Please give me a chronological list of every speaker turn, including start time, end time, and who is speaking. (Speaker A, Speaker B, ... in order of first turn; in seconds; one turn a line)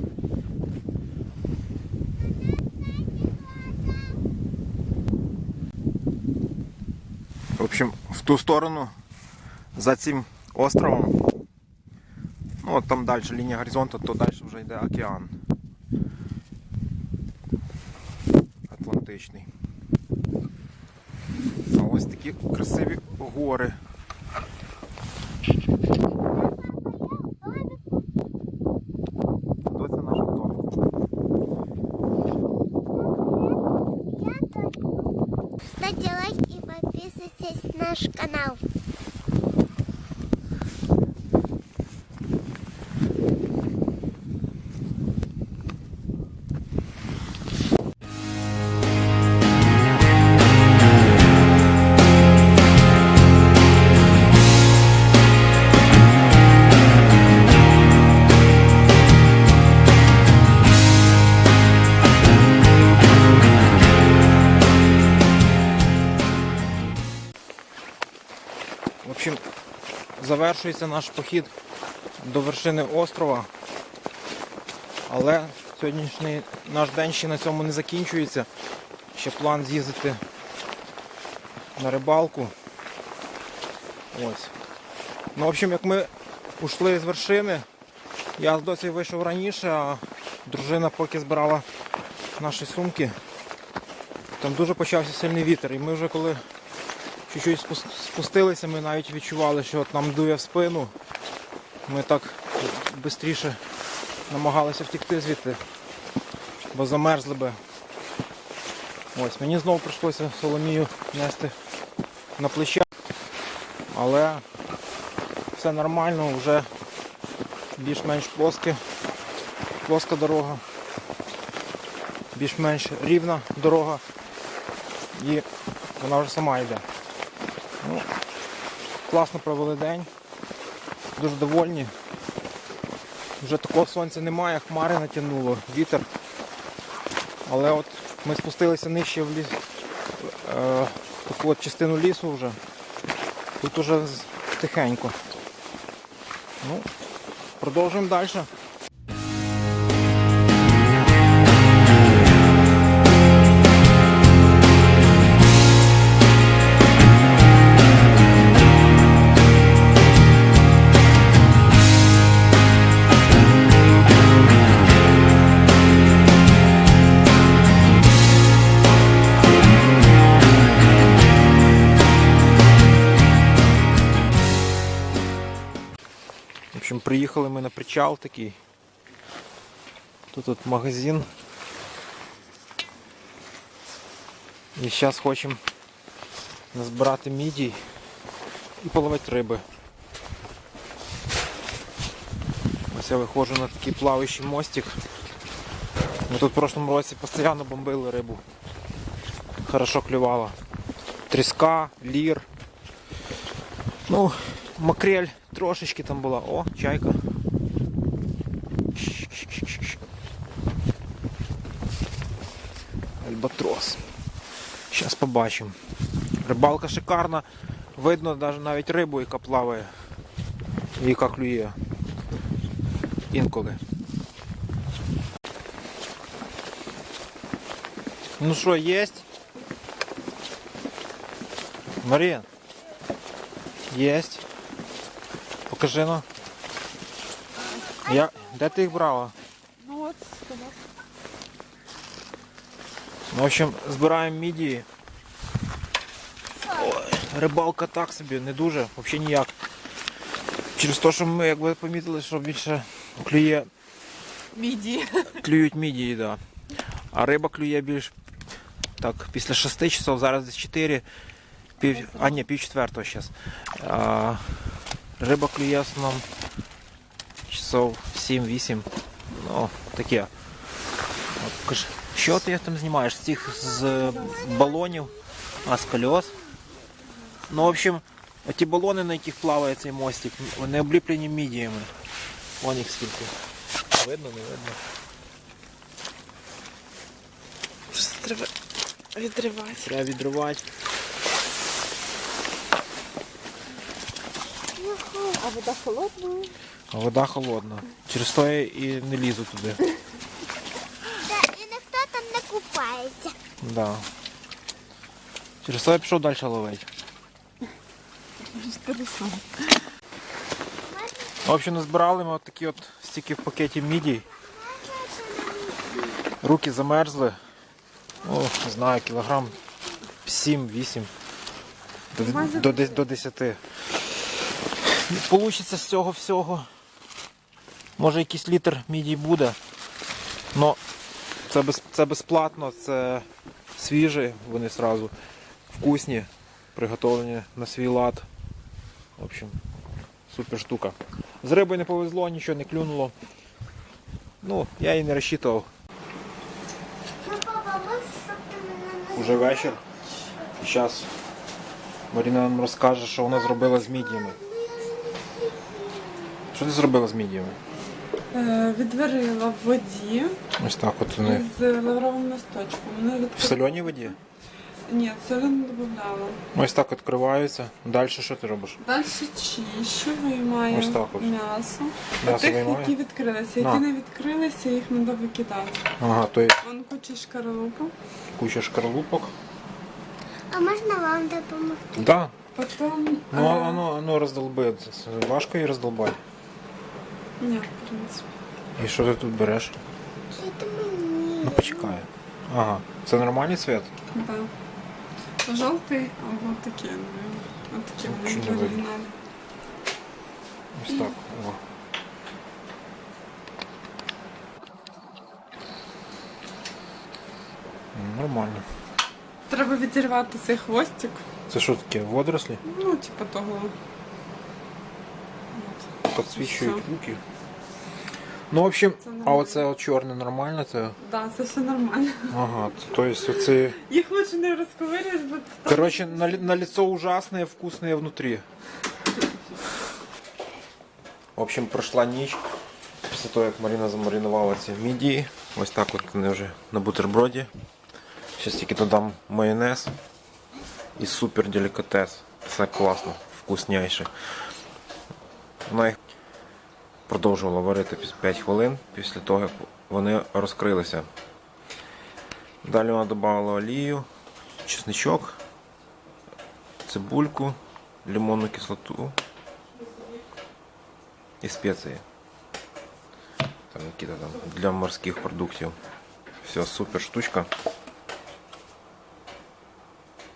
Speaker A: 7.6-8.9
Speaker A: 9.7-11.2
Speaker A: 12.6-15.3
Speaker A: 18.7-19.5
Speaker A: 21.7-23.8
Speaker B: 26.4-27.8
Speaker A: 29.6-30.9
Speaker B: 34.2-34.8
Speaker B: 35.7-38.6
Speaker A: 69.0-69.4
Speaker A: 70.2-71.5
Speaker A: 72.2-73.5
Speaker A: 75.1-78.5
Speaker A: 79.1-80.2
Speaker A: 81.8-82.5
Speaker A: 84.1-84.5
Speaker A: 85.3-87.7
Speaker A: 88.4-91.7
Speaker A: 92.4-93.2
Speaker A: 94.4-96.4
Speaker A: 97.3-100.9
Speaker A: 101.8-103.6
Speaker A: 104.3-105.6
Speaker A: 106.7-107.6
Speaker A: 109.1-111.5
Speaker A: 112.4-112.9
Speaker A: 113.9-114.4
Speaker A: 115.5-116.7
Speaker A: 117.8-118.8
Speaker A: 119.8-120.6
Speaker A: 122.3-124.0
Speaker A: 125.1-125.5
Speaker A: 126.0-126.8
Speaker A: 127.8-128.1
Speaker A: 129.1-130.1
Speaker A: 131.2-131.9
Speaker A: 133.4-136.1
Speaker A: 137.4-139.6
Speaker A: 140.2-142.6
Speaker A: 143.6-145.2
Speaker A: 146.6-146.9
Speaker A: 147.6-148.5
Speaker A: 176.7-178.6
Speaker A: 180.3-181.3
Speaker A: 184.8-185.6
Speaker A: 186.7-187.8
Speaker A: 188.8-189.6
Speaker A: 192.9-195.0
Speaker A: 196.3-198.4
Speaker A: 199.6-200.6
Speaker A: 201.3-202.5
Speaker A: 204.1-207.2
Speaker A: 208.9-210.0
Speaker A: 213.2-214.0
Speaker A: 214.9-215.8
Speaker A: 216.4-219.9
Speaker A: 220.9-221.8
Speaker A: 223.3-223.8
Speaker A: 228.4-229.2
Speaker A: 232.0-232.5
Speaker A: 233.9-234.4
Speaker A: 235.7-236.2
Speaker A: 238.0-239.3
Speaker C: 239.8-240.8
Speaker A: 243.3-244.8
Speaker A: 246.7-249.5
Speaker A: 250.7-253.7
Speaker C: 254.6-255.1
Speaker A: 255.2-256.4
Speaker A: 257.1-258.1
Speaker A: 259.0-261.0
Speaker A: 261.8-264.4
Speaker A: 265.2-266.2
Speaker A: 267.5-270.3
Speaker A: 271.3-276.4
Speaker A: 277.5-281.9
Speaker A: 282.6-283.3
Speaker A: 283.9-284.8
Speaker A: 287.9-288.5
Speaker A: 289.1-290.6
Speaker B: 294.7-295.5
Speaker C: 295.4-296.5
Speaker A: 296.9-299.8
Speaker B: 301.2-303.4
Speaker A: 303.6-304.1
Speaker A: 305.6-306.9
Speaker C: 308.5-309.7
Speaker B: 311.0-311.3
Speaker A: 311.4-314.3
Speaker B: 314.6-316.0
Speaker A: 316.4-317.4
Speaker A: 318.2-319.6
Speaker A: 320.2-321.1
Speaker A: 322.1-323.6
Speaker C: 322.2-323.0
Speaker A: 324.8-326.7
Speaker A: 328.0-329.6
Speaker A: 330.5-330.8
Speaker A: 331.4-335.1
Speaker A: 335.7-338.3
Speaker A: 339.2-339.6
Speaker A: 340.3-343.1
Speaker A: 344.4-345.7
Speaker B: 347.2-349.2
Speaker A: 349.1-349.8
Speaker A: 350.5-351.1
Speaker A: 352.1-354.4
Speaker B: 354.4-356.3
Speaker A: 356.5-357.6
Speaker C: 358.3-360.4
Speaker A: 360.6-361.5
Speaker C: 361.2-364.1
Speaker A: 363.4-364.1
Speaker C: 364.9-366.4
Speaker A: 366.5-368.8
Speaker C: 368.8-375.9
Speaker A: 370.7-371.3
Speaker A: 372.2-373.0
Speaker A: 373.6-373.8
Speaker A: 376.0-376.6
Speaker C: 376.6-377.9
Speaker A: 378.4-379.3
Speaker B: 380.5-382.0
Speaker A: 381.9-382.4
Speaker C: 382.6-383.8
Speaker A: 383.3-386.2
Speaker C: 387.4-388.2
Speaker A: 388.8-389.8
Speaker B: 390.3-391.9
Speaker A: 391.4-393.9
Speaker C: 394.1-394.5
Speaker C: 395.4-399.1
Speaker A: 398.0-398.9
Speaker A: 400.7-401.6
Speaker A: 407.9-408.6
Speaker C: 409.5-411.2
Speaker A: 411.5-412.6
Speaker C: 412.6-413.8
Speaker C: 415.5-416.8
Speaker A: 416.1-417.2
Speaker A: 418.5-421.0
Speaker C: 419.0-419.7
Speaker C: 421.0-422.4
Speaker A: 422.3-423.8
Speaker C: 423.6-426.4
Speaker A: 425.6-428.4
Speaker A: 431.4-432.4
Speaker A: 433.1-437.5
Speaker A: 438.4-439.9
Speaker A: 440.9-444.1
Speaker A: 445.6-446.0
Speaker A: 447.1-451.1
Speaker A: 452.6-454.1
Speaker A: 454.6-455.4
Speaker A: 456.8-459.1
Speaker A: 461.4-462.0
Speaker A: 463.7-465.8
Speaker A: 466.4-467.5